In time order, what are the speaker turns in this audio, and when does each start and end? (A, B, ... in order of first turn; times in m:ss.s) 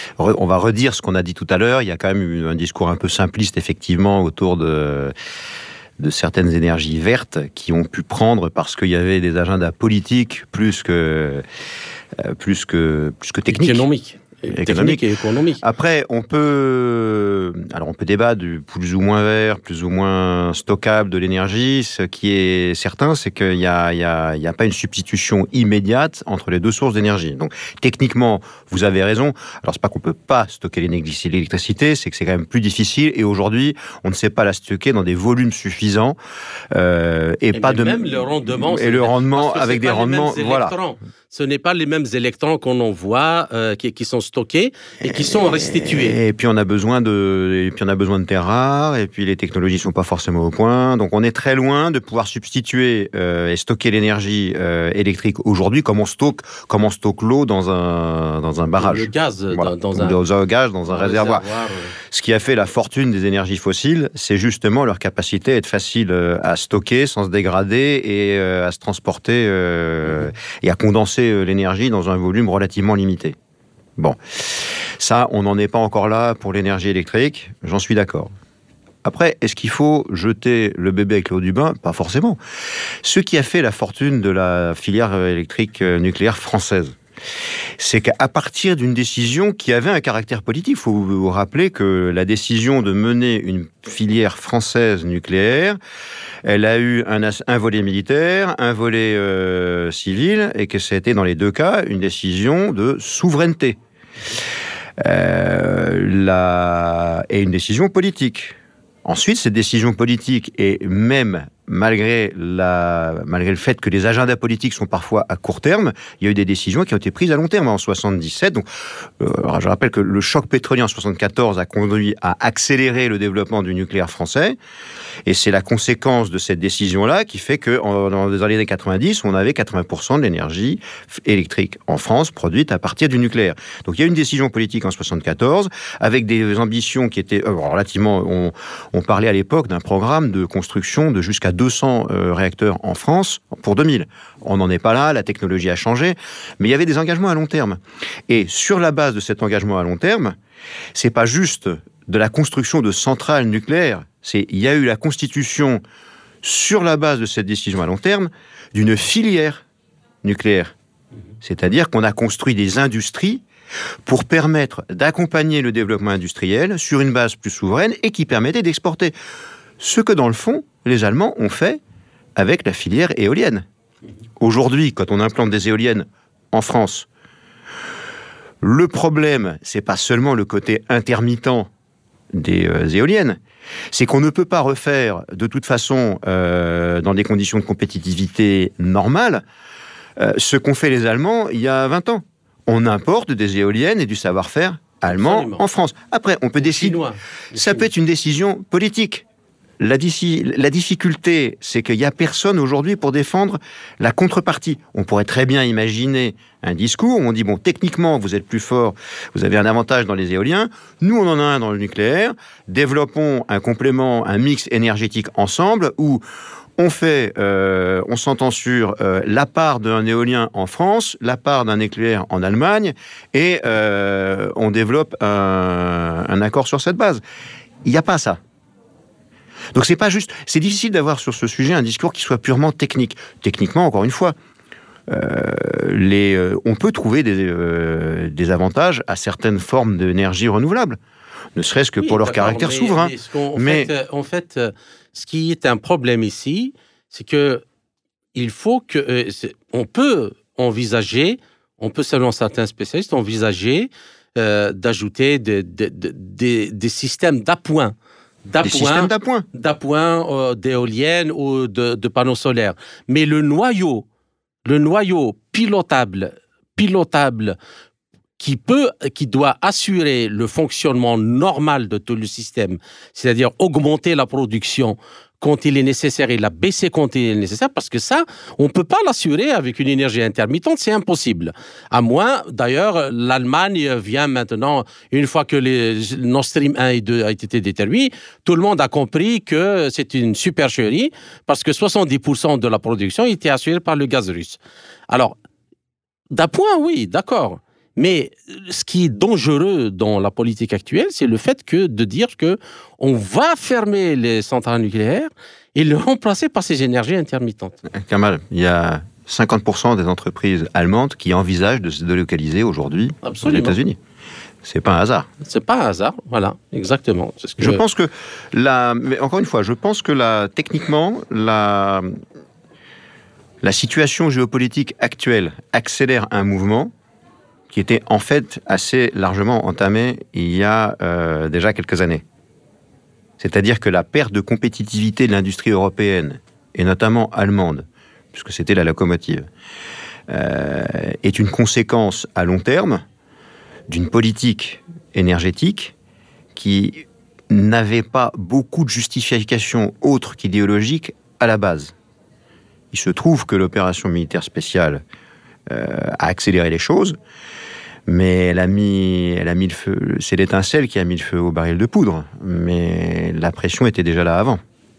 0:00.2-0:05.1 A
0:06.0-0:11.4 A
0:12.2-0:13.8 A
0:13.5-0:15.6 B
0:14.5-0:15.0 A
0:15.6-0:36.2 A
0:36.7-0:40.7 A
0:37.5-0:46.2 B
0:45.1-1:01.4 A
0:58.8-1:00.2 B
1:00.9-1:02.0 B
1:02.1-1:13.4 A
1:14.0-1:18.3 A
1:19.0-1:22.4 A
1:23.0-1:27.0 A
1:27.8-1:35.8 A
1:36.4-1:43.8 A
1:45.0-1:58.7 A
1:59.2-2:04.6 A
2:05.3-2:30.4 A
2:31.0-2:35.8 A
2:36.4-2:39.6 A
2:40.2-2:40.7 A
2:41.4-2:43.4 A
2:44.1-2:49.1 A
2:49.8-2:51.8 A
2:52.4-2:53.7 A
2:54.4-2:57.1 A
2:58.6-3:01.7 A
3:02.3-3:03.4 A
3:03.9-3:09.4 A
3:10.2-3:17.0 A
3:15.1-3:15.6 B
3:16.6-3:17.9 B
3:17.5-3:19.2 A
3:19.8-3:36.2 A
3:36.8-3:47.2 A
3:47.8-3:48.4 A
3:49.7-3:54.4 A
3:55.1-4:01.0 A
4:01.6-4:03.9 A
4:02.0-4:07.6 B
4:08.4-4:17.9 B
4:18.5-4:24.1 B
4:18.6-4:19.5 A
4:24.7-4:27.6 B
4:28.4-4:54.6 B
4:55.1-4:55.4 B
4:56.3-5:07.8 B
5:07.9-5:14.0 A
5:13.2-5:13.8 B
5:14.6-5:15.3 A
5:15.4-5:17.8 B
5:17.6-5:22.1 A
5:23.6-5:26.9 A
5:27.7-5:32.2 A
5:33.4-5:39.4 A
5:40.3-5:43.0 A
5:43.9-5:45.9 A
5:46.6-5:51.9 A
5:52.9-5:55.0 A
5:55.7-5:57.2 A
5:58.1-6:04.6 A